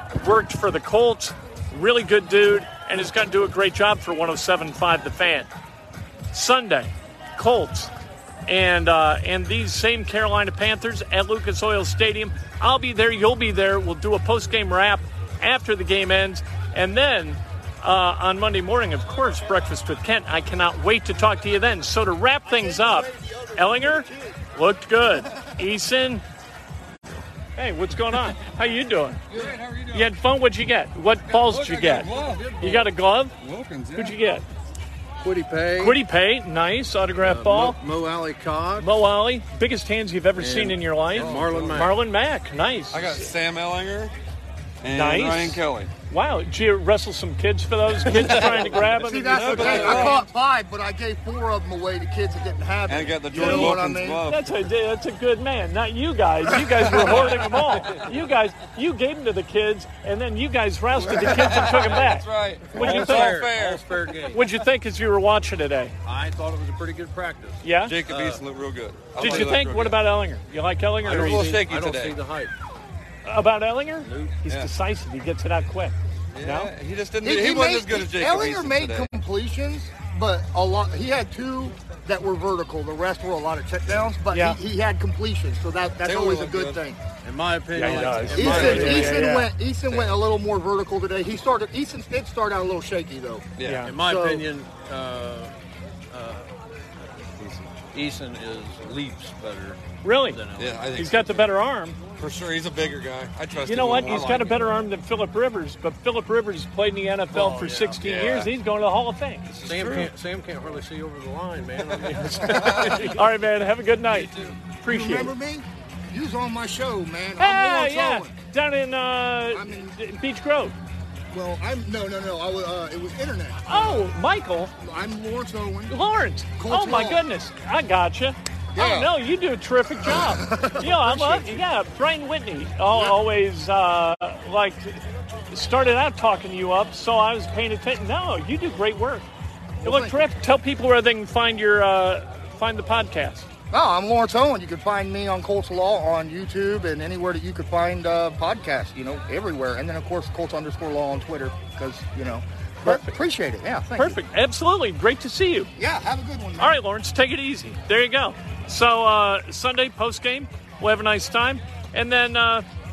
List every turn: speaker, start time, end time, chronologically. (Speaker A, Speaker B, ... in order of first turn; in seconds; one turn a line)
Speaker A: 0.2-5.5
Speaker A: 6.3-7.9
Speaker A: 8.5-26.2
Speaker A: 27.6-29.2
Speaker B: 29.3-30.1
Speaker A: 29.9-33.4
Speaker B: 31.3-32.5
Speaker C: 32.1-32.9
Speaker B: 33.4-34.2
Speaker A: 34.0-34.5
Speaker C: 35.2-36.0
Speaker A: 35.8-37.8
Speaker C: 37.2-38.9
Speaker A: 38.8-43.3
Speaker C: 40.4-42.0
Speaker B: 41.1-41.8
Speaker B: 42.9-44.1
Speaker B: 44.8-45.9
Speaker A: 44.9-50.2
Speaker B: 48.0-48.8
Speaker D: 49.0-54.2
Speaker B: 49.3-50.2
Speaker B: 52.9-54.5
Speaker A: 53.3-53.7
Speaker A: 54.3-63.4
Speaker D: 56.5-57.2
Speaker C: 57.1-58.1
Speaker B: 61.0-63.9
Speaker D: 61.1-61.5
Speaker C: 62.7-64.4
Speaker A: 64.3-65.9
Speaker C: 66.0-68.4
Speaker A: 67.6-68.0
Speaker B: 67.8-70.0
Speaker C: 69.2-69.6
Speaker A: 69.2-71.5
Speaker C: 71.0-72.5
Speaker B: 71.2-72.2
Speaker A: 73.2-76.7
Speaker C: 74.0-74.4
Speaker B: 76.3-79.1
Speaker D: 77.2-87.0
Speaker A: 84.3-84.6
Speaker B: 86.0-86.8
Speaker C: 87.2-89.2
Speaker A: 87.7-89.5
Speaker D: 88.3-94.4
Speaker B: 88.5-88.9
Speaker C: 89.9-90.2
Speaker B: 93.6-93.9
Speaker A: 93.7-93.9
Speaker C: 93.8-95.5
Speaker C: 96.1-97.2
Speaker B: 97.4-97.8
Speaker C: 97.9-100.9
Speaker A: 100.0-100.4
Speaker B: 100.6-101.5
Speaker A: 101.0-102.0
Speaker B: 102.2-104.7
Speaker A: 103.6-109.7
Speaker C: 104.1-104.5
Speaker C: 107.3-108.1
Speaker B: 108.0-108.5
Speaker C: 109.6-113.2
Speaker B: 109.8-110.1
Speaker D: 112.3-112.9
Speaker A: 112.4-115.3
Speaker B: 112.5-113.1
Speaker D: 114.9-118.3
Speaker A: 117.4-120.8
Speaker D: 119.5-119.9
Speaker D: 121.3-124.1
Speaker A: 123.7-124.7
Speaker D: 124.8-125.9
Speaker A: 125.9-139.3
Speaker D: 126.6-127.2
Speaker D: 128.7-129.1
Speaker D: 130.0-131.6
Speaker D: 139.8-140.2
Speaker A: 139.8-143.5
Speaker D: 143.7-154.2
Speaker A: 152.8-153.2
Speaker A: 153.9-155.7
Speaker D: 155.8-156.8
Speaker A: 156.6-162.6